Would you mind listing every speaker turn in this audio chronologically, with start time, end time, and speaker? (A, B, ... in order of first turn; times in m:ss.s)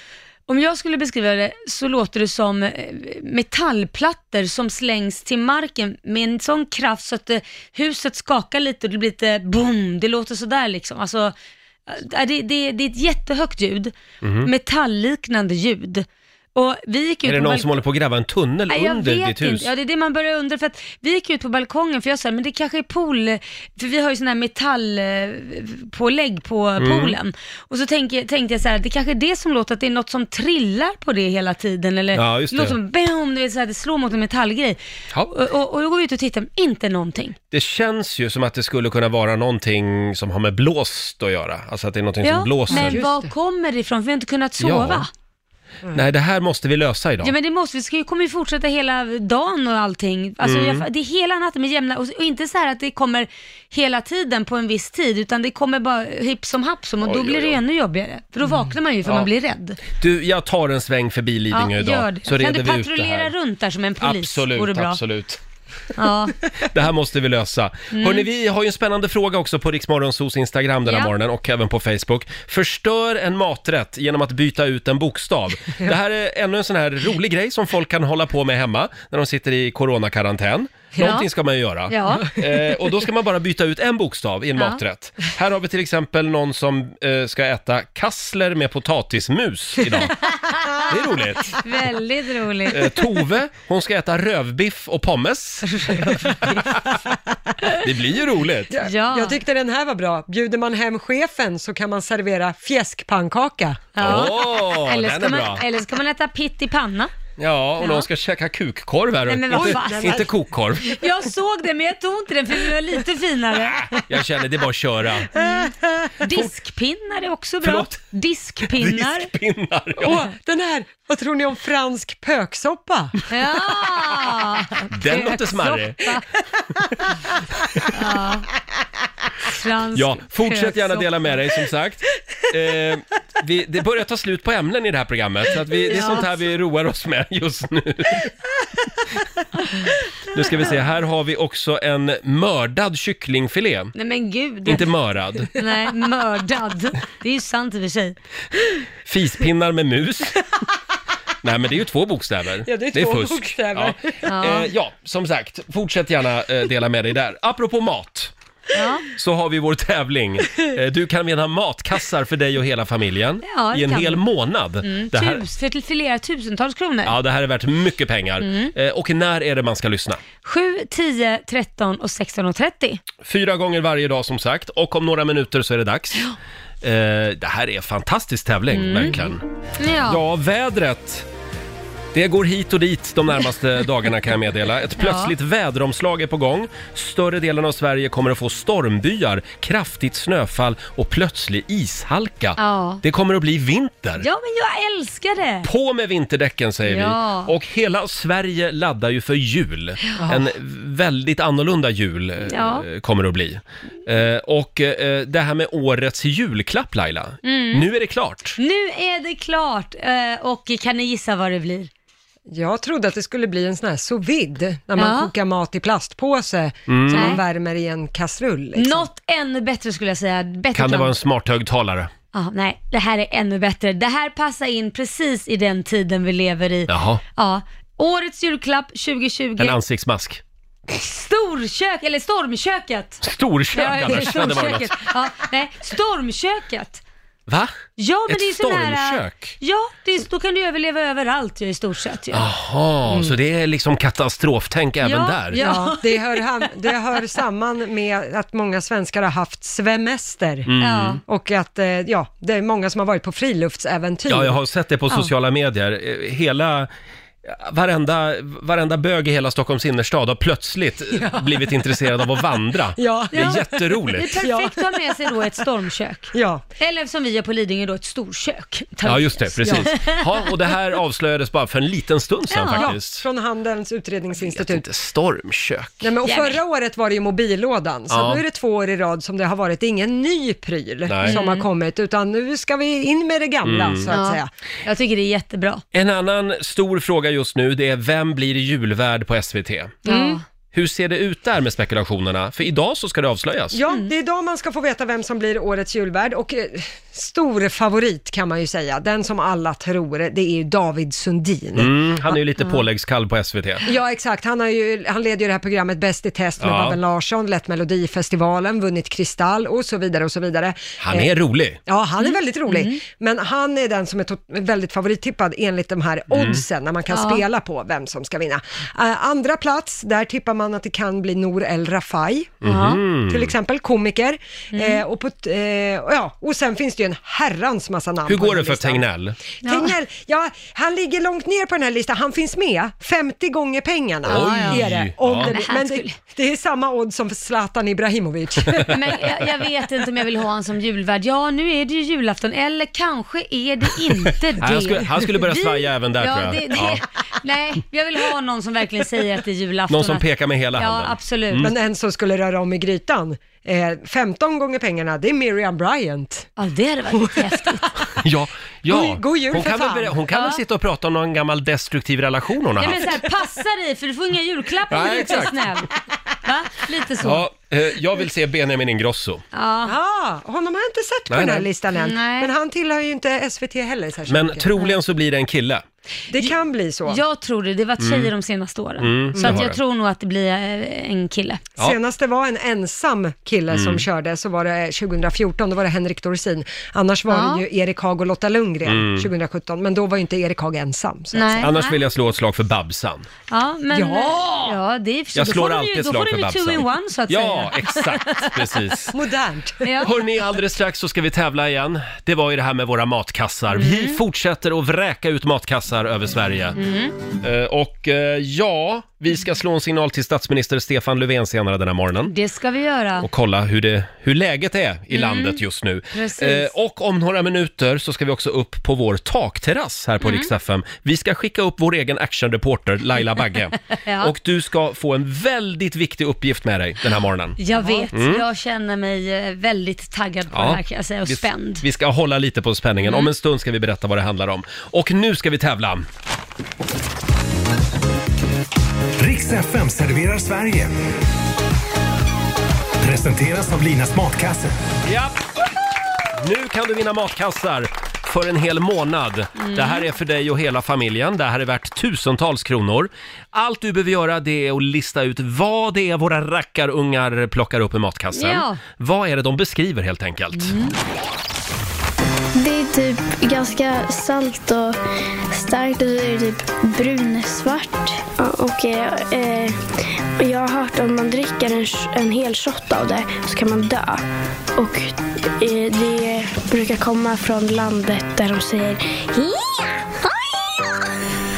0:00.5-0:11.3 A
0:11.9-0:17.8 A
0:14.2-0:14.5 B
0:17.2-0:19.7 B
0:18.7-0:34.8 A
0:26.8-0:27.2 B
0:32.1-0:32.8 B
0:35.3-0:37.4 A
0:37.5-0:43.0 B
0:42.2-0:45.1 A
0:42.7-0:43.3 C
0:44.6-0:45.0 B
0:45.9-0:47.3 B
0:47.2-0:59.8 A
0:50.4-0:50.8 B
0:57.0-0:57.6 B
0:59.9-1:03.3 B
1:01.5-1:05.0 A
1:04.0-1:05.4 B
1:06.0-1:06.4 A
1:06.6-1:30.2 B
1:07.9-1:08.3 A
1:10.8-1:11.1 A
1:21.0-1:21.3 A
1:21.9-1:22.4 A
1:30.5-1:30.8 A
1:30.9-1:31.6 B
1:31.5-1:33.0 A
1:32.7-1:37.0 B
1:35.7-1:36.6 A
1:37.8-1:38.7 B
1:38.7-1:43.8 C
1:38.8-1:39.4 A
1:44.0-1:47.1 A
1:44.0-1:45.6 B
1:47.4-1:50.9 B
1:47.8-1:48.1 A
1:49.2-1:50.2 A
1:49.5-1:50.3 C
1:50.8-1:54.0 A
1:54.0-1:55.3 B
1:55.3-1:59.3 A
1:55.4-1:56.1 C
1:57.6-1:58.0 B
1:58.6-2:00.2 B
2:00.0-2:03.1 C
2:03.3-2:06.2 A
2:04.9-2:06.0 B
2:07.9-2:08.5 A
2:09.4-2:11.4 A
2:09.9-2:18.3 B
2:15.9-2:16.2 A
2:20.3-2:23.9 B
2:23.9-2:24.9 A
2:24.6-2:25.5 B
2:25.5-2:28.2 A
2:29.0-2:30.4 B
2:31.4-2:38.3 B
2:32.6-2:34.2 C
2:34.2-2:34.7 A
2:38.7-2:39.1 A
2:39.1-2:45.4 B
2:43.4-2:44.2 A
2:44.8-2:47.2 A
2:47.0-2:50.2 B
2:48.4-2:48.7 A
2:50.4-2:53.0 A
2:53.2-2:56.2 B
2:56.8-2:59.4 B
2:58.7-2:59.3 A
2:59.8-3:00.2 A
3:00.1-3:01.2 B
3:02.1-3:14.2 B
3:05.0-3:05.3 A
3:12.6-3:13.0 A
3:14.2-3:15.7 A
3:15.6-3:28.6 B
3:16.8-3:17.5 A
3:20.2-3:20.4 C
3:22.5-3:22.8 A
3:27.4-3:27.9 A
3:28.6-3:31.9 A
3:32.5-3:39.1 C
3:35.0-3:35.3 A
3:36.9-3:37.4 B
3:37.1-3:37.4 A
3:38.8-3:41.2 A
3:40.7-3:42.1 B
3:42.3-3:49.8 A
3:46.9-3:47.2 B
3:49.6-3:50.4 B
3:50.9-3:57.0 A
3:53.2-3:55.0 B
3:57.5-3:57.7 B
3:58.0-4:02.5 A
3:58.3-3:59.5 B
4:02.3-4:05.6 B
4:03.1-4:03.3 C
4:05.0-4:06.7 A
4:05.6-4:10.7 C
4:10.6-4:11.2 B
4:10.8-4:11.2 A
4:11.2-4:14.6 C
4:14.3-4:16.9 B
4:17.4-4:24.3 B
4:21.1-4:21.6 C
4:23.0-4:25.4 C
4:23.3-4:30.2 A
4:26.3-4:26.6 C
4:29.0-4:33.2 B
4:32.5-4:32.9 A
4:32.7-4:34.8 C
4:34.4-4:36.0 B
4:36.0-4:44.5 C
4:36.2-4:36.6 A
4:38.1-4:38.4 B
4:41.1-4:41.4 B
4:41.2-4:41.6 A
4:43.6-4:44.1 B
4:44.1-4:45.8 A
4:45.9-4:50.0 B
4:50.0-4:50.4 C
4:50.0-4:50.4 A
4:50.7-4:53.8 B
4:53.7-5:02.0 C
5:01.8-5:03.8 B
5:03.8-5:11.3 C
5:06.6-5:07.0 B
5:11.0-5:11.8 B
5:11.8-5:22.6 C
5:12.2-5:13.0 A
5:16.3-5:16.6 B
5:17.1-5:17.4 A
5:22.6-5:23.5 B
5:22.6-5:23.0 A
5:23.2-5:29.0 C
5:24.7-5:25.0 A
5:28.2-5:29.4 B
5:29.6-5:39.0 C
5:29.6-5:29.9 A
5:34.3-5:35.5 B
5:34.3-5:36.2 A
5:38.9-5:50.2 A
5:44.6-5:47.0 B
5:49.9-5:51.7 B
5:50.8-5:51.7 A
5:51.6-5:56.5 C
5:56.6-5:57.9 A
5:57.1-5:57.8 C
5:58.2-6:03.0 B
5:58.9-6:00.2 C
6:00.3-6:00.6 A
6:02.8-6:05.9 A
6:04.9-6:05.6 B
6:06.4-6:07.5 A
6:07.2-6:09.4 B
6:09.5-6:09.9 A
6:09.8-6:14.7 C
6:11.3-6:11.6 B
6:12.0-6:12.5 A
6:14.3-6:15.8 B
6:16.3-6:17.2 C
6:17.0-6:21.6 A
6:18.0-6:18.3 B
6:19.0-6:19.8 B
6:19.3-6:19.6 C
6:21.8-6:31.7 C
6:23.7-6:24.0 B
6:27.3-6:27.6 A
6:28.8-6:29.3 B
6:31.3-6:32.0 A
6:31.6-6:33.3 B
6:33.5-6:38.5 A
6:33.9-6:34.8 C
6:35.3-6:39.1 B
6:39.1-6:40.0 C
6:39.8-6:40.1 A
6:40.0-6:46.8 B
6:43.7-6:44.2 A
6:46.8-6:47.1 A
6:47.4-6:52.3 B
6:52.3-6:53.3 A
6:53.2-7:07.6 B
6:55.1-6:55.6 A
6:56.1-6:56.7 A
7:00.2-7:00.5 A
7:04.0-7:04.3 A
7:07.6-7:11.8 A
7:07.7-7:08.1 C
7:08.1-7:08.4 B
7:10.5-7:16.1 B
7:13.0-7:13.3 A
7:19.2-7:20.9 D
7:23.0-7:24.8 D
7:25.0-7:25.4 B
7:26.3-7:40.7 B
7:29.6-7:30.1 A
7:38.3-7:38.8 A
7:40.5-7:40.9 A
7:42.6-7:45.0 E
7:45.5-7:49.8 E
7:50.4-7:54.2 E
7:54.8-8:01.1 E